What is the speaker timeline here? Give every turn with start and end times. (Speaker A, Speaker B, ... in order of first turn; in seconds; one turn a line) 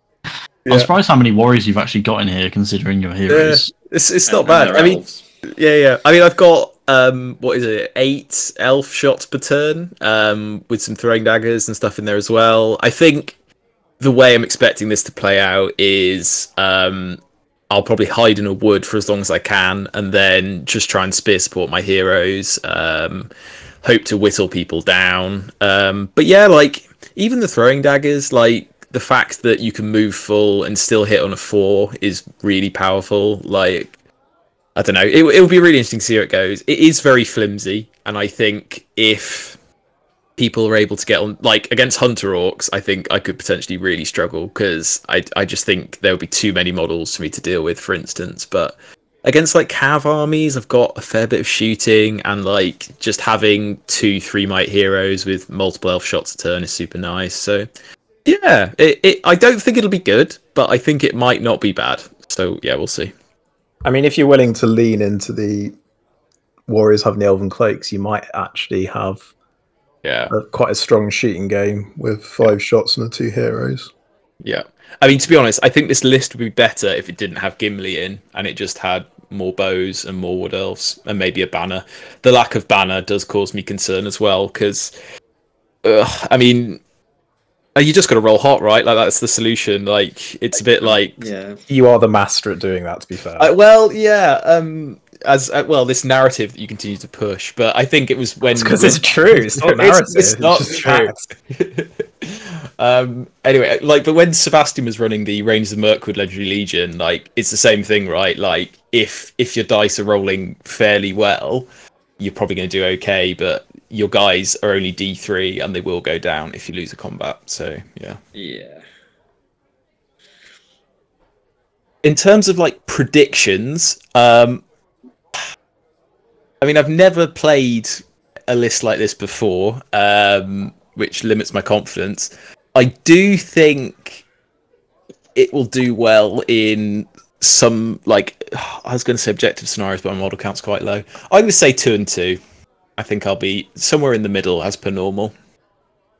Speaker A: 0.7-3.7
Speaker B: 3.3-5.0
Speaker C: 4.3-5.2
Speaker B: 5.5-13.3
Speaker B: 14.0-23.3
Speaker B: 23.8-33.9
Speaker B: 34.8-39.6
Speaker B: 40.4-57.7
Speaker B: 58.2-63.1
Speaker D: 63.8-65.7
Speaker D: 66.7-69.2
Speaker B: 70.0-70.3
Speaker D: 70.3-73.9
Speaker B: 74.4-84.9
Speaker B: 85.8-86.8
Speaker B: 87.8-91.2
Speaker C: 90.6-91.6
Speaker D: 91.7-93.5
Speaker B: 93.4-111.7
Speaker D: 98.5-101.2
Speaker B: 112.2-118.2
Speaker C: 118.3-118.8
Speaker B: 122.0-124.6
Speaker B: 126.6-134.2
Speaker B: 135.3-142.4
Speaker B: 143.0-145.3